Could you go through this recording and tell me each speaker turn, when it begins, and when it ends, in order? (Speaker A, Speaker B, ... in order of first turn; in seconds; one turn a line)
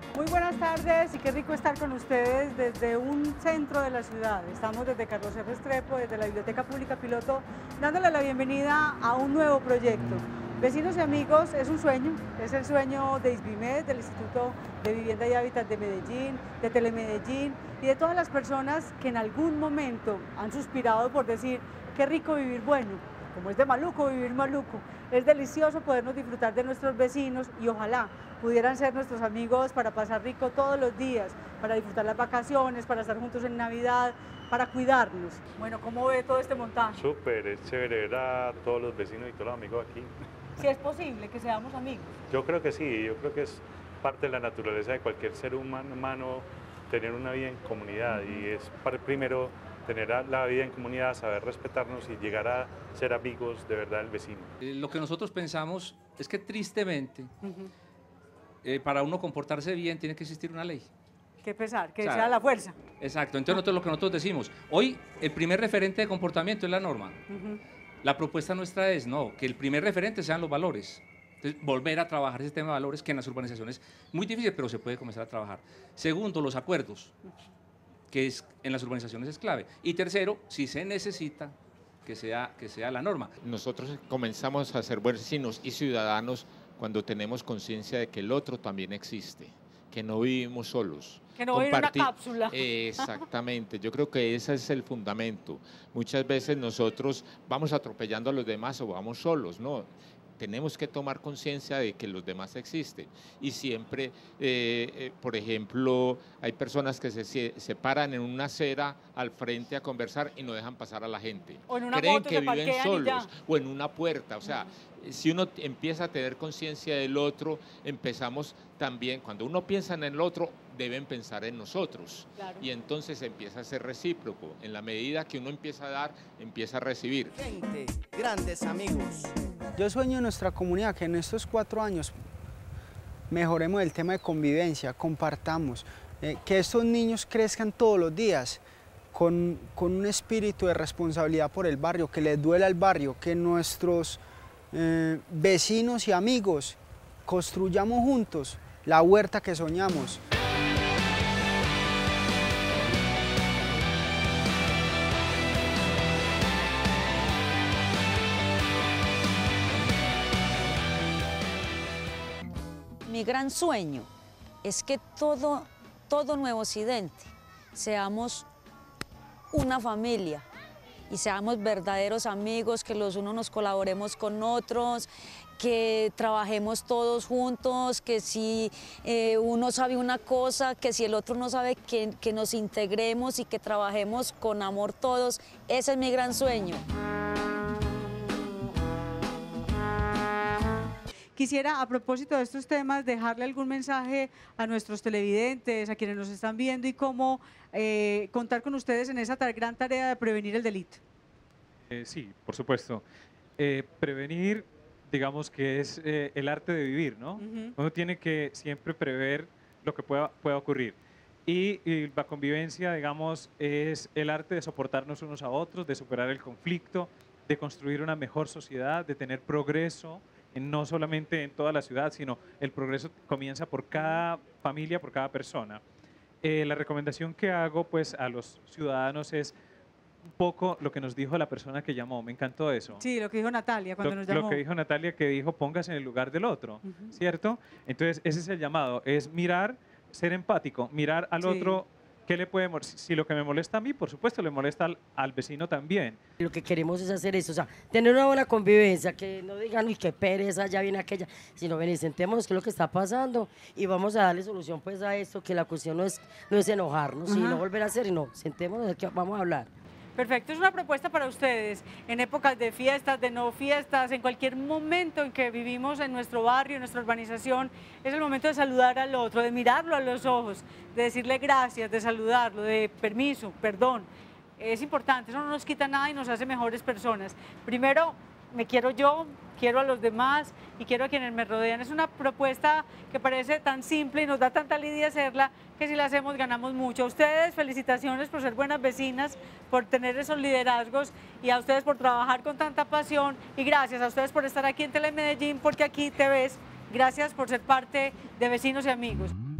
Speaker A: 0.1-37.0
Speaker B: 36.9-40.1
Speaker A: 40.6-42.1
Speaker B: 42.3-54.5
Speaker C: 54.6-57.3
Speaker A: 57.4-57.7
Speaker C: 58.6-60.9
Speaker A: 61.4-62.8
Speaker C: 62.0-62.4
Speaker C: 63.0-67.2
Speaker A: 67.3-67.6
Speaker C: 68.0-77.1
Speaker C: 78.1-83.3
Speaker D: 83.4-127.3
Speaker A: 91.4-93.2
Speaker A: 111.7-113.3
Speaker A: 122.4-122.7
Speaker E: 127.3-129.3
Speaker F: 129.8-132.1
Speaker F: 133.3-150.2
Speaker G: 163.0-164.1
Speaker G: 164.6-168.4
Speaker G: 169.5-170.4
Speaker G: 171.1-175.1
Speaker G: 175.6-186.8
Speaker A: 191.3-201.0
Speaker H: 201.9-203.0
Speaker H: 203.6-225.8
Speaker A: 207.4-207.7
Speaker H: 226.4-229.5
Speaker H: 230.4-233.0
Speaker A: 233.0-234.6
Speaker H: 234.0-246.2
Speaker A: 236.8-237.1
Speaker A: 241.4-241.8
Speaker I: 246.4-259.7
Speaker A: 257.3-257.6
Speaker A: 260.1-299.3